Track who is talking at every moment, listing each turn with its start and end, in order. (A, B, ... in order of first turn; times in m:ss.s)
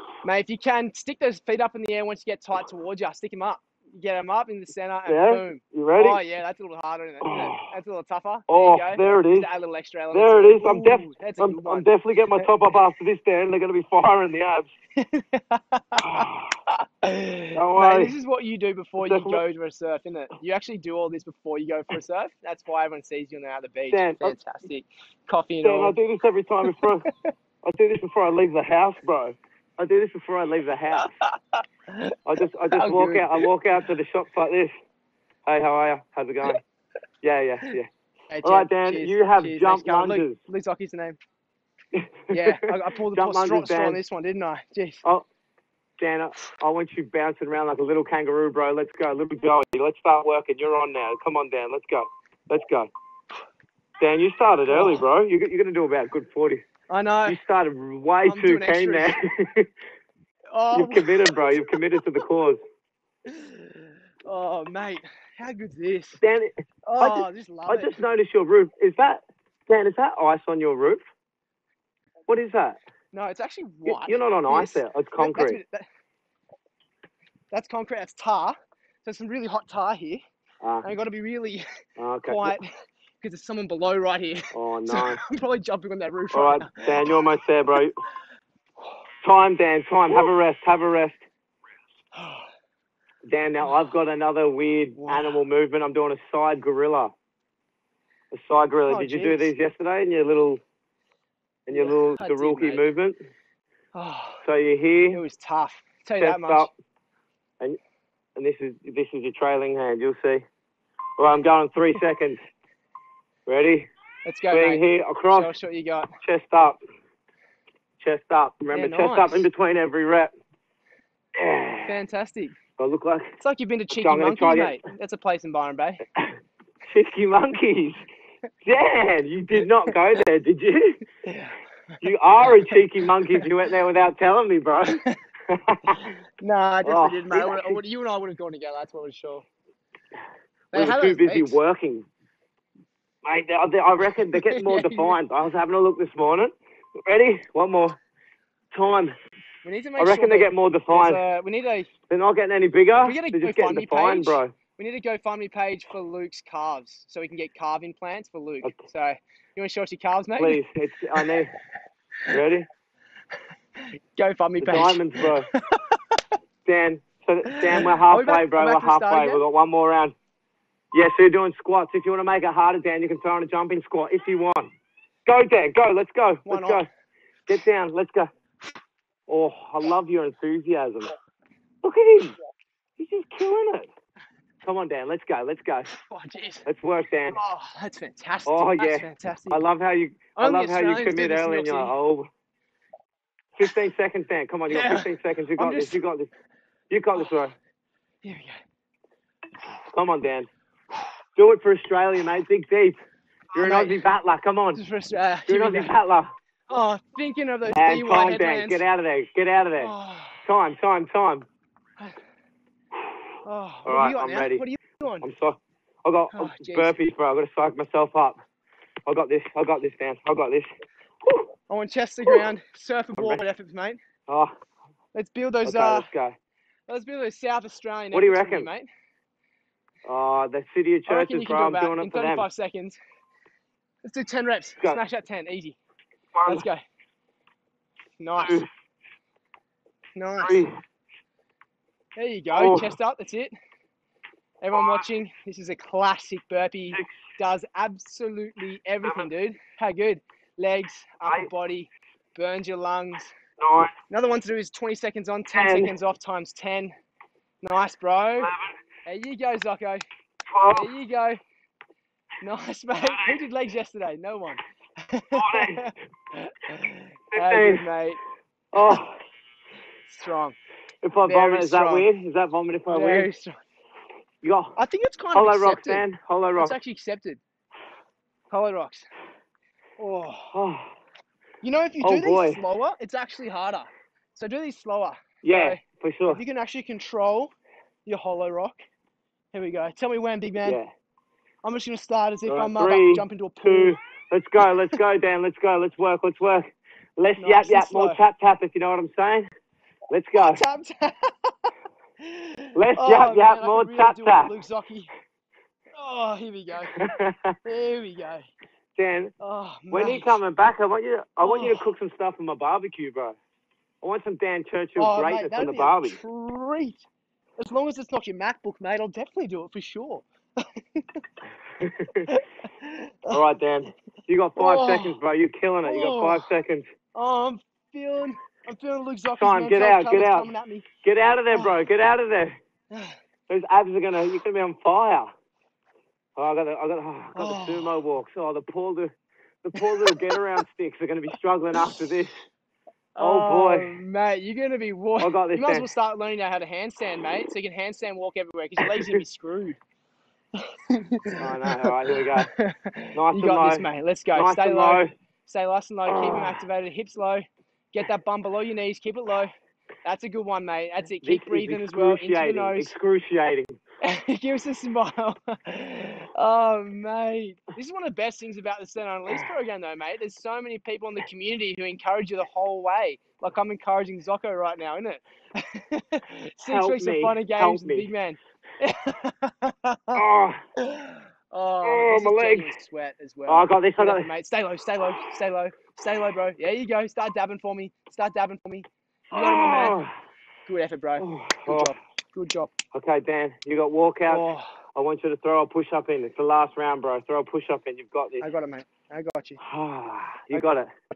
0:00.2-0:12.5 A
0:05.1-0:06.2 B
0:07.2-0:07.5 B
0:08.5-0:09.5 B
0:10.1-0:14.7 B
0:15.0-0:26.0 A
0:16.0-0:16.5 B
0:17.5-0:18.1 B
0:19.0-0:19.4 B
0:23.9-0:24.3 B
0:25.6-0:27.1 B
0:27.6-0:31.2 B
0:31.0-0:32.2 A
0:32.3-0:34.7 B
0:32.7-0:33.5 A
0:35.5-0:36.6 B
0:37.2-0:37.9 B
0:38.3-0:41.2 A
0:38.4-0:40.4 B
0:41.9-0:44.0 B
0:42.3-0:45.0 A
0:46.0-0:52.9 B
0:54.0-0:56.6 B
0:54.7-0:55.0 A
0:56.9-0:57.4 A
0:57.3-0:59.7 B
0:58.2-0:59.2 A
1:00.5-1:01.6 A
1:00.7-1:02.6 B
1:03.3-1:06.2 A
1:06.2-1:11.0 B
1:06.9-1:08.0 A
1:12.3-1:12.8 B
1:13.1-1:15.9 A
1:13.9-1:15.6 B
1:17.5-1:20.2 A
1:20.6-1:20.9 B
1:20.8-1:21.6 A
1:22.0-1:22.5 B
1:22.3-1:22.7 A
1:23.2-1:27.2 A
1:24.5-1:25.2 B
1:26.3-1:28.0 B
1:29.2-1:31.2 B
1:32.1-1:32.5 A
1:33.2-1:37.1 B
1:35.0-1:35.4 A
1:38.3-1:40.6 B
1:38.9-1:39.5 A
1:41.7-1:43.2 B
1:41.7-1:42.9 A
1:44.0-1:44.4 A
1:44.4-1:45.2 B
1:45.1-1:46.7 A
1:46.2-1:46.7 B
1:48.4-1:50.4 B
1:51.2-1:52.4 B
1:53.5-1:53.9 B
1:54.2-1:56.2 A
1:54.5-1:55.5 B
1:56.2-1:56.8 B
1:58.0-2:00.3 B
1:58.7-1:59.4 A
2:01.4-2:01.9 B
2:01.8-2:02.6 A
2:02.8-2:03.3 B
2:03.4-2:06.0 A
2:03.9-2:04.8 B
2:06.9-2:08.0 B
2:08.6-2:11.0 B
2:11.2-2:11.6 A
2:12.0-2:16.1 B
2:14.9-2:15.2 A
2:15.9-2:19.4 A
2:16.8-2:17.8 B
2:20.7-2:21.6 A
2:20.7-2:22.1 B
2:23.2-2:28.0 B
2:24.3-2:25.2 A
2:28.7-2:29.2 B
2:29.6-2:31.9 A
2:30.0-2:31.2 B
2:32.1-2:34.5 B
2:33.0-2:40.6 A
2:40.4-2:41.5 B
2:42.3-2:42.7 B
2:43.8-2:46.0 A
2:44.6-2:45.5 B
2:46.6-2:50.2 B
2:47.5-2:49.4 A
2:50.9-2:54.7 B
2:55.3-2:56.9 B
2:56.5-2:56.8 A
2:57.5-2:58.3 B
2:59.3-3:01.1 B
3:01.8-3:02.4 B
3:03.0-3:03.9 B
3:04.6-3:05.9 B
3:05.9-3:06.7 A
3:06.7-3:07.4 B
3:07.3-3:09.6 A
3:08.5-3:12.3 B
3:10.4-3:11.9 A
3:13.6-3:16.3 B
3:14.7-3:16.0 A
3:16.9-3:17.6 B
3:18.2-3:18.6 A
3:19.9-3:20.5 B
3:21.4-3:23.0 B
3:23.5-3:24.0 A
3:23.6-3:24.8 B
3:24.8-3:25.9 A
3:25.5-3:26.3 B
3:26.7-3:28.8 A
3:27.7-3:29.9 B
3:29.8-3:30.4 A
3:30.4-3:31.5 B
3:33.4-3:35.3 A
3:33.9-3:34.6 B
3:35.2-3:38.4 B
3:36.3-3:36.9 A
3:39.1-3:40.7 B
3:41.7-3:44.0 A
3:44.3-3:44.5 B
3:45.2-3:46.1 A
3:45.6-3:46.4 B
3:46.9-3:48.9 A
3:48.1-3:48.7 B
3:50.0-3:52.5 B
3:51.1-3:53.0 A
3:54.0-3:55.8 A
3:56.4-3:56.7 B
3:56.5-3:56.8 A
3:58.2-3:58.6 A
3:58.4-3:58.7 B
4:00.2-4:00.6 A
4:00.4-4:00.8 B
4:02.2-4:03.5 A
4:02.6-4:02.9 B
4:04.6-4:13.3 A
4:04.7-4:05.0 B
4:13.6-4:13.9 B
4:14.1-4:16.9 A
4:15.5-4:15.9 B
4:17.6-4:18.5 A
4:18.4-4:18.7 B
4:19.1-4:20.0 A
4:20.5-4:20.9 B
4:20.7-4:21.4 A
4:22.4-4:28.2 A
4:25.4-4:25.9 B
4:27.3-4:27.9 B
4:28.7-4:29.2 B
4:30.1-4:30.6 A
4:31.0-4:33.3 B
4:31.2-4:32.1 A
4:32.9-4:33.6 A
4:34.4-4:34.8 B
4:34.8-4:36.0 A
4:35.3-4:36.8 B
4:36.6-4:37.4 A
4:38.5-4:39.1 A
4:40.0-4:40.6 A
4:40.5-4:40.9 B
4:41.6-4:47.5 A
4:42.0-4:42.6 B
4:45.4-4:46.4 B
4:48.1-4:48.8 A
4:49.5-4:50.8 A
4:50.6-4:50.9 B
4:51.6-4:54.0 A
4:52.5-4:59.5 B
4:57.4-4:58.2 A
5:00.1-5:00.6 B
5:00.4-5:05.1 A
5:02.8-5:04.5 B
5:06.0-5:07.1 A
5:07.0-5:07.6 B
5:07.6-5:08.5 A
5:09.0-5:09.3 B
5:09.4-5:10.4 A
5:09.9-5:13.4 B
5:11.4-5:11.8 A
5:14.0-5:16.2 B
5:15.0-5:17.0 A
5:17.6-5:21.2 A
5:21.8-5:22.3 B
5:22.3-5:23.4 A
5:23.3-5:26.9 B
5:24.6-5:25.2 A
5:25.8-5:26.5 A
5:27.2-5:30.9 A
5:29.4-5:30.5 B
5:31.0-5:32.6 B
5:33.5-5:35.3 B
5:36.4-5:42.4 B
5:37.4-5:38.0 A
5:39.8-5:40.4 A
5:43.2-5:49.8 A
5:43.2-5:44.0 B
5:45.2-5:45.9 B
5:48.8-5:49.2 B
5:50.6-5:59.5 A
5:51.4-5:52.5 B
5:53.2-5:55.1 B
5:56.1-5:56.6 B
6:00.0-6:02.9 A
6:01.2-6:03.8 B
6:04.0-6:20.2 A
6:16.7-6:18.1 B
6:20.2-6:20.6 B
6:20.8-6:30.0 A
6:21.8-6:22.7 B
6:23.5-6:24.3 B
6:29.3-6:30.1 B
6:30.7-6:32.7 A
6:31.2-6:31.9 B
6:32.9-6:38.5 B
6:34.3-6:34.7 A
6:38.4-6:39.6 A
6:39.6-6:40.9 B